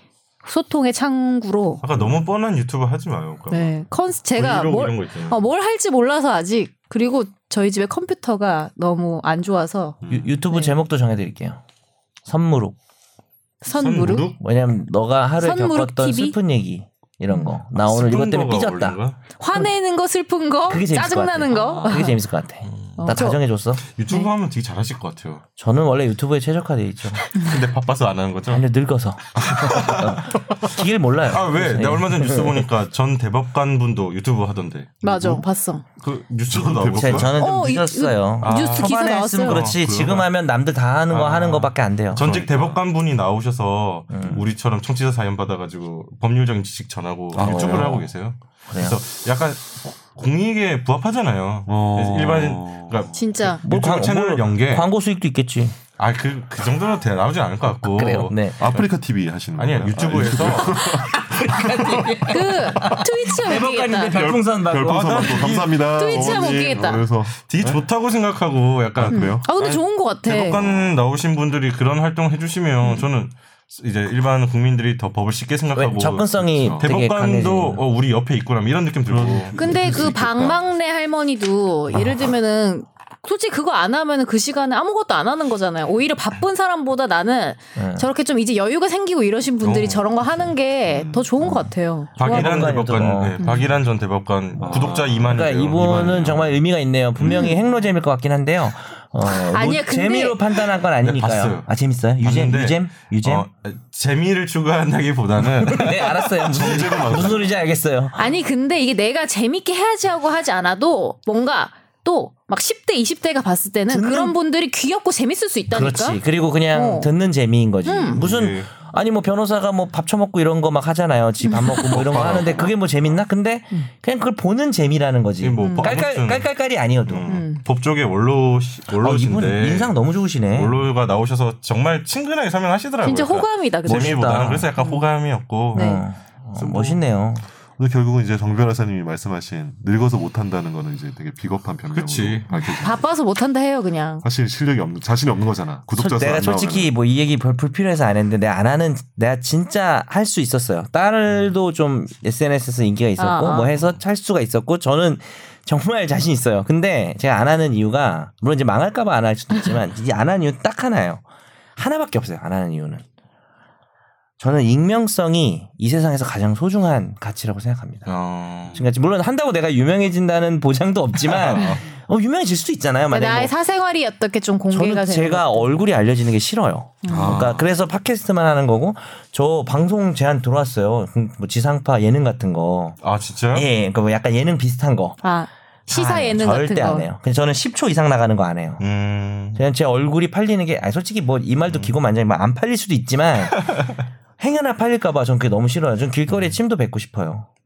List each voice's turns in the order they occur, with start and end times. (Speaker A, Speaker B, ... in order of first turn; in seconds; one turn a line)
Speaker A: 0.4-1.8
Speaker B: 1.8-3.7
Speaker C: 1.9-2.2
Speaker A: 3.5-10.0
Speaker B: 4.3-5.4
Speaker C: 10.0-10.4
Speaker D: 10.1-11.6
Speaker A: 10.5-10.8
Speaker D: 12.2-12.8
Speaker A: 13.6-14.3
Speaker B: 13.7-14.4
Speaker D: 14.2-19.0
Speaker A: 15.4-16.4
Speaker B: 17.8-19.2
Speaker A: 19.4-22.2
Speaker D: 20.7-23.8
Speaker B: 22.6-23.2
Speaker A: 23.0-23.4
Speaker B: 23.9-25.4
Speaker D: 25.6-27.3
Speaker B: 27.2-28.7
Speaker D: 28.5-32.7
Speaker B: 29.5-30.3
Speaker B: 31.3-35.4
Speaker A: 35.0-35.8
Speaker B: 36.0-37.3
Speaker C: 36.5-37.3
Speaker D: 36.8-42.3
Speaker A: 37.4-39.7
Speaker B: 38.4-40.3
Speaker B: 41.1-54.9
Speaker C: 42.1-42.9
Speaker D: 44.1-44.4
Speaker C: 47.3-48.1
Speaker D: 47.3-48.1
Speaker D: 48.7-49.0
Speaker C: 51.7-53.2
Speaker A: 53.1-53.6
Speaker D: 53.6-55.8
Speaker B: 56.0-58.9
Speaker D: 57.9-58.6
Speaker C: 58.6-62.1
Speaker B: 59.5-60.9
Speaker D: 60.9-65.6
Speaker B: 61.7-62.1
Speaker A: 62.3-64.3
Speaker C: 64.1-67.8
Speaker B: 64.8-79.6
Speaker A: 65.9-67.1
Speaker C: 69.0-69.5
Speaker A: 69.1-70.6
Speaker C: 70.6-70.9
Speaker C: 72.8-73.1
Speaker D: 75.7-77.8
Speaker C: 76.5-77.0
Speaker C: 79.0-80.6
Speaker A: 79.6-92.8
Speaker D: 87.8-88.1
Speaker B: 89.6-90.4
Speaker C: 90.8-91.4
Speaker D: 92.2-93.4
Speaker B: 92.2-96.3
Speaker A: 93.4-93.7
Speaker C: 94.6-96.6
Speaker D: 95.3-103.5
Speaker A: 97.2-97.6
Speaker A: 99.2-100.7
Speaker B: 101.0-101.7
Speaker B: 102.2-107.4
Speaker D: 105.3-108.4
Speaker C: 106.4-107.6
Speaker A: 108.2-117.1
Speaker D: 113.9-114.3
Speaker D: 115.7-127.4
Speaker A: 117.8-118.2
Speaker B: 118.1-118.7
Speaker A: 121.4-122.0
Speaker C: 121.7-122.8
Speaker B: 121.9-122.6
Speaker B: 125.4-136.0
Speaker A: 125.6-125.9
Speaker A: 127.3-127.6
Speaker D: 128.9-130.9
Speaker A: 133.0-135.1
Speaker D: 133.8-134.7
Speaker A: 135.7-136.1
Speaker D: 135.7-137.4
Speaker B: 136.5-137.0
Speaker C: 137.8-143.1
Speaker B: 141.9-142.5
Speaker A: 142.5-144.3
Speaker C: 144.2-146.9
Speaker D: 145.9-161.2
Speaker A: 153.2-153.8
Speaker D: 161.8-163.0
Speaker D: 164.4-173.5
Speaker B: 168.1-168.9
Speaker B: 171.2-171.8
Speaker A: 173.1-175.8
Speaker D: 174.7-183.0
Speaker A: 177.0-177.4
Speaker C: 177.1-177.7
Speaker B: 183.0-183.7
Speaker D: 183.5-185.2
Speaker A: 185.2-187.1
Speaker D: 185.9-188.9
Speaker B: 188.8-189.6
Speaker D: 189.6-193.7
Speaker B: 191.7-191.9
Speaker D: 194.4-197.5